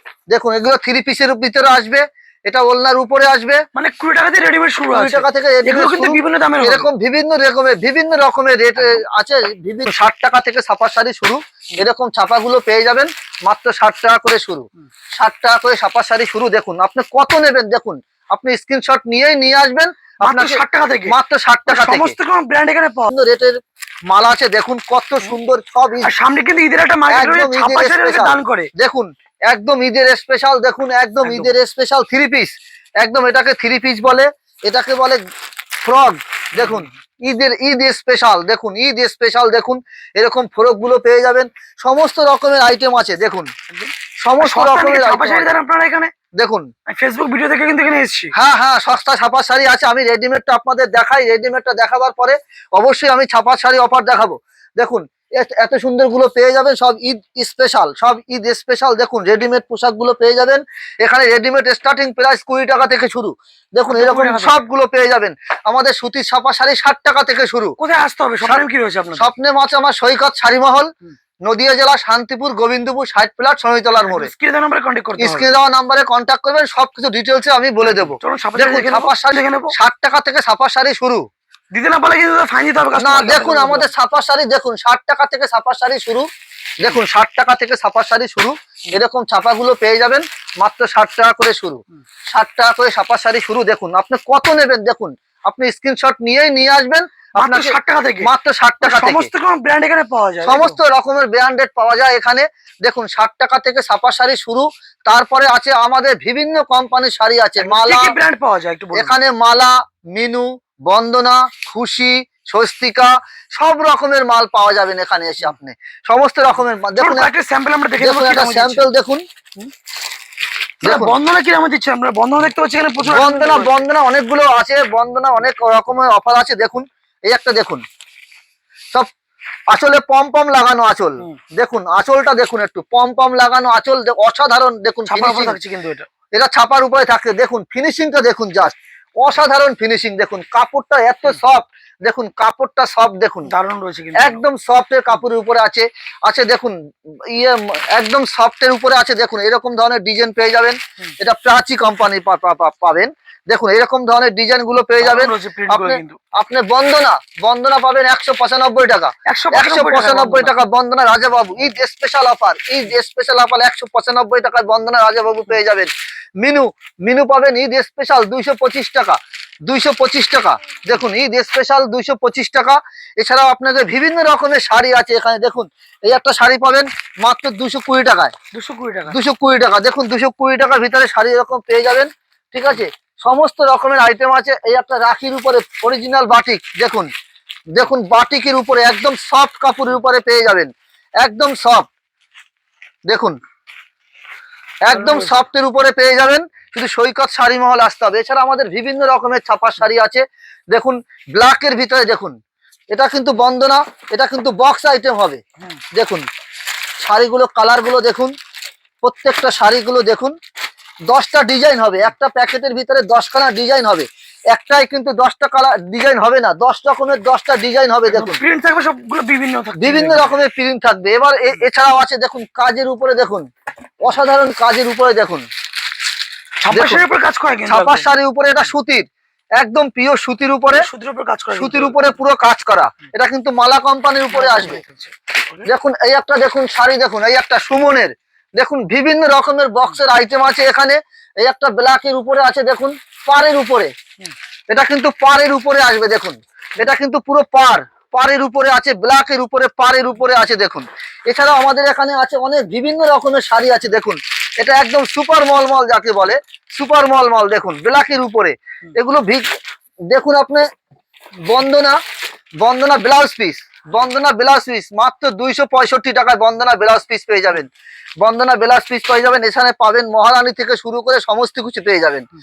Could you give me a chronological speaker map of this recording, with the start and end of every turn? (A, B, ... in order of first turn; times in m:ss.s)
0:00.3-0:03.6 A
0:03.7-0:06.9 B
0:04.9-0:14.6 A
0:15.2-0:22.2 A
0:20.2-0:23.1 B
0:23.1-0:23.5 A
0:24.1-0:26.1 A
0:26.0-0:28.7 B
0:27.1-0:35.2 A
0:31.2-0:31.5 B
0:35.8-0:43.5 A
0:36.6-0:36.9 B
0:43.7-0:46.1 B
0:44.2-0:45.6 A
0:46.4-0:46.7 A
0:46.9-0:48.3 B
0:48.3-1:07.8 A
1:03.9-1:04.6 B
1:07.8-1:09.3 B
1:09.2-1:10.9 A
1:11.4-1:14.3 A
1:14.1-1:15.5 B
1:15.2-1:21.2 A
1:17.9-1:19.7 B
1:21.7-1:23.9 B
1:22.9-1:26.3 A
1:26.8-1:39.3 A
1:37.4-1:38.3 B
1:38.8-1:40.8 B
1:40.4-1:48.2 A
1:47.6-1:49.1 B
1:48.9-1:57.3 A
1:57.0-1:58.9 B
1:58.0-1:59.2 A
2:00.8-2:03.7 B
2:00.8-2:01.2 A
2:03.0-2:07.8 A
2:09.7-2:15.6 A
2:15.1-2:16.1 B
2:16.3-2:23.5 A
2:23.5-2:24.4 B
2:24.2-2:26.7 A
2:27.3-2:45.9 A
2:35.0-2:36.2 B
2:39.3-2:40.5 B
2:46.4-2:58.3 A
2:58.5-2:59.2 B
2:59.1-3:07.1 A
3:07.7-3:10.7 A
3:11.2-3:11.9 A
3:13.1-3:13.4 A
3:14.8-3:22.4 A
3:14.9-3:15.4 B
3:22.9-3:25.4 A
3:25.9-3:26.2 A
3:27.0-3:28.3 A
3:29.0-3:30.3 A
3:31.1-3:38.4 A
3:38.1-3:40.3 B
3:39.8-3:43.4 A
3:44.0-3:45.4 A
3:46.6-3:48.0 B
3:46.7-3:47.0 A
3:47.7-3:49.0 A
3:49.6-3:50.9 A
3:50.7-3:52.0 B
3:51.6-3:54.8 A
3:54.3-3:55.7 B
3:55.6-4:03.9 A
4:04.7-4:19.4 A
4:20.1-4:20.6 A
4:21.5-4:22.0 A
4:22.6-4:27.7 A
4:28.2-4:32.2 A